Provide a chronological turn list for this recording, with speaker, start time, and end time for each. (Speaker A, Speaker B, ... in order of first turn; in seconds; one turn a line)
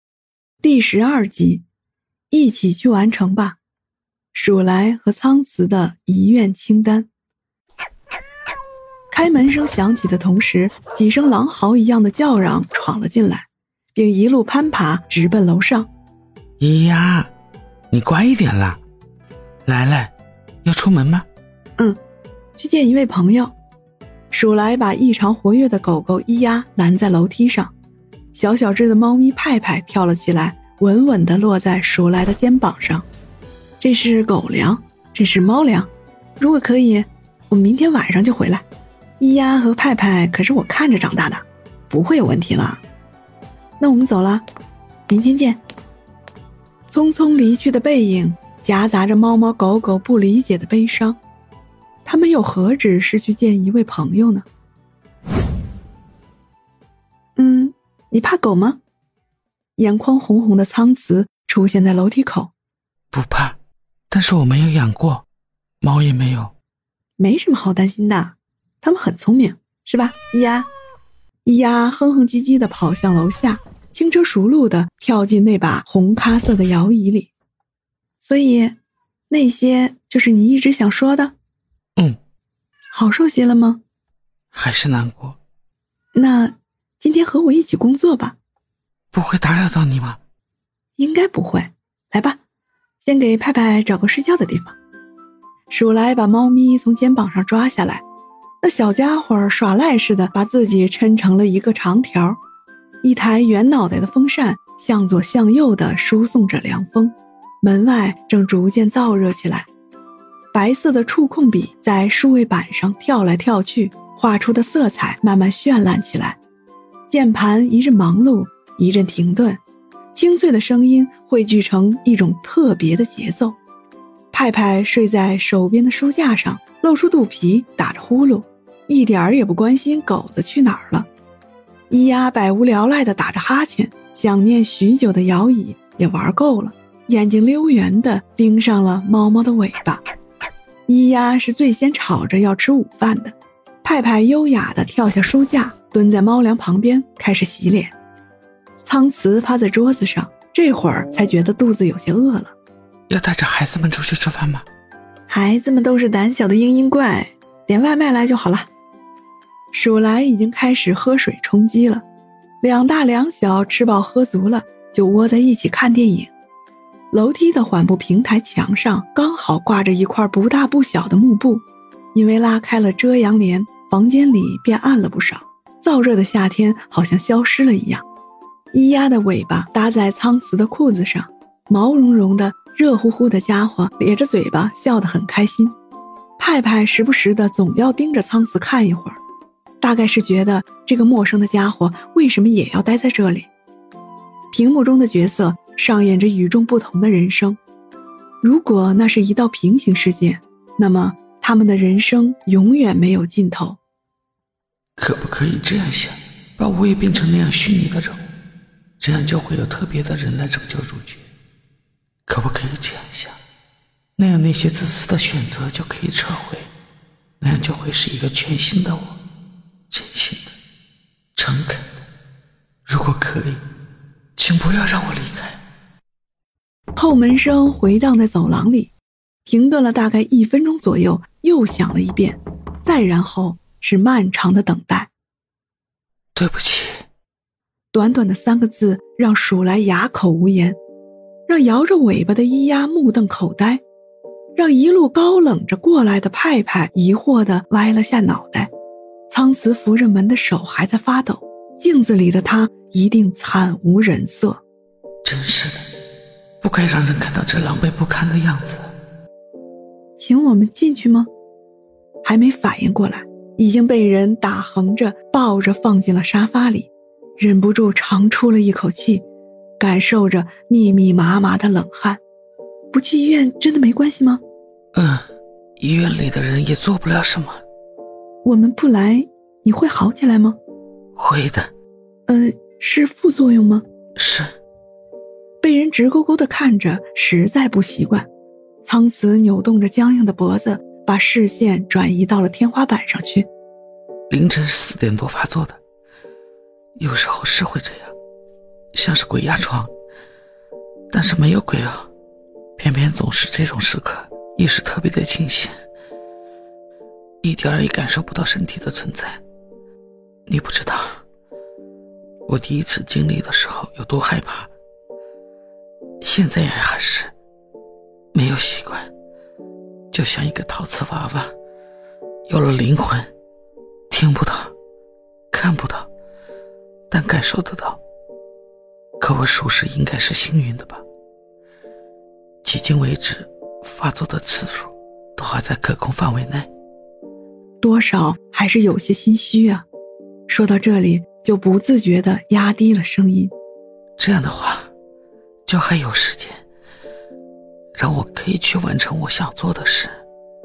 Speaker A: 0.6-1.6
Speaker A: 2.3-3.6
Speaker A: 4.3-7.1
Speaker A: 9.1-15.9
Speaker B: 16.6-17.3
Speaker B: 17.9-18.8
Speaker B: 19.6-20.1
Speaker B: 20.6-21.2
Speaker A: 22.6-23.5
Speaker A: 24.3-27.7
Speaker A: 28.3-33.0
Speaker A: 33.8-38.6
Speaker A: 39.2-42.8
Speaker A: 43.8-44.4
Speaker A: 45.1-45.6
Speaker A: 46.9-51.2
Speaker A: 52.0-54.5
Speaker A: 57.4-58.8
Speaker A: 59.8-62.5
Speaker B: 63.1-63.6
Speaker B: 64.1-65.2
Speaker B: 65.8-66.5
Speaker A: 67.2-70.7
Speaker A: 71.4-77.3
Speaker A: 78.2-78.8
Speaker A: 79.3-81.3
Speaker A: 82.9-83.8
Speaker B: 84.5-85.4
Speaker A: 86.1-88.4
Speaker B: 89.1-90.2
Speaker A: 91.0-92.4
Speaker A: 93.0-94.8
Speaker A: 95.7-98.0
Speaker A: 98.6-102.4
Speaker A: 103.0-109.7
Speaker A: 110.5-116.4
Speaker A: 117.1-119.6
Speaker A: 120.1-123.6
Speaker A: 124.3-131.1
Speaker A: 131.9-140.0
Speaker A: 140.9-147.9
Speaker A: 148.8-152.5
Speaker B: 153.1-154.7
Speaker A: 155.3-158.7
Speaker A: 159.7-162.0
Speaker A: 162.6-166.3
Speaker A: 167.1-171.6
Speaker A: 172.1-178.0
Speaker A: 178.7-185.7
Speaker A: 186.4-189.2
Speaker A: 189.8-193.5
Speaker A: 194.5-197.6
Speaker A: 198.4-203.8
Speaker B: 205.0-208.2
Speaker B: 209.0-211.2
Speaker B: 212.3-213.4
Speaker B: 214.2-216.7
Speaker B: 217.4-219.2
Speaker B: 219.9-220.6
Speaker B: 221.3-222.0
Speaker B: 222.8-223.6
Speaker B: 224.4-225.6
Speaker A: 226.9-228.9
Speaker A: 229.4-235.1
Speaker B: 236.3-237.0
Speaker A: 237.9-240.8
Speaker A: 241.5-243.8
Speaker A: 244.6-248.7
Speaker A: 249.3-254.6
Speaker B: 255.2-255.8
Speaker B: 256.6-258.9
Speaker A: 260.2-261.3
Speaker A: 262.2-269.2
Speaker A: 269.8-272.2
Speaker A: 272.9-274.4
Speaker B: 274.9-275.2
Speaker B: 275.8-277.6
Speaker A: 278.4-280.6
Speaker B: 281.1-281.7
Speaker A: 282.3-283.8
Speaker B: 284.1-284.5
Speaker A: 285.6-288.3
Speaker A: 288.8-293.5
Speaker B: 294.3-295.8
Speaker B: 297.0-298.1
Speaker B: 298.9-299.9
Speaker B: 301.1-302.1
Speaker B: 302.8-305.8
Speaker B: 307.4-309.4
Speaker B: 310.5-311.2
Speaker B: 312.5-314.7
Speaker B: 316.2-317.3
Speaker B: 318.3-319.1
Speaker B: 320.1-321.5
Speaker B: 322.5-323.3
Speaker B: 324.1-324.7
Speaker B: 325.5-326.1
Speaker B: 327.1-328.0
Speaker B: 329.2-331.0
Speaker B: 332.6-336.7
Speaker A: 337.8-339.9
Speaker A: 340.5-343.5
Speaker B: 344.2-344.9
Speaker B: 345.7-346.6
Speaker B: 347.9-350.2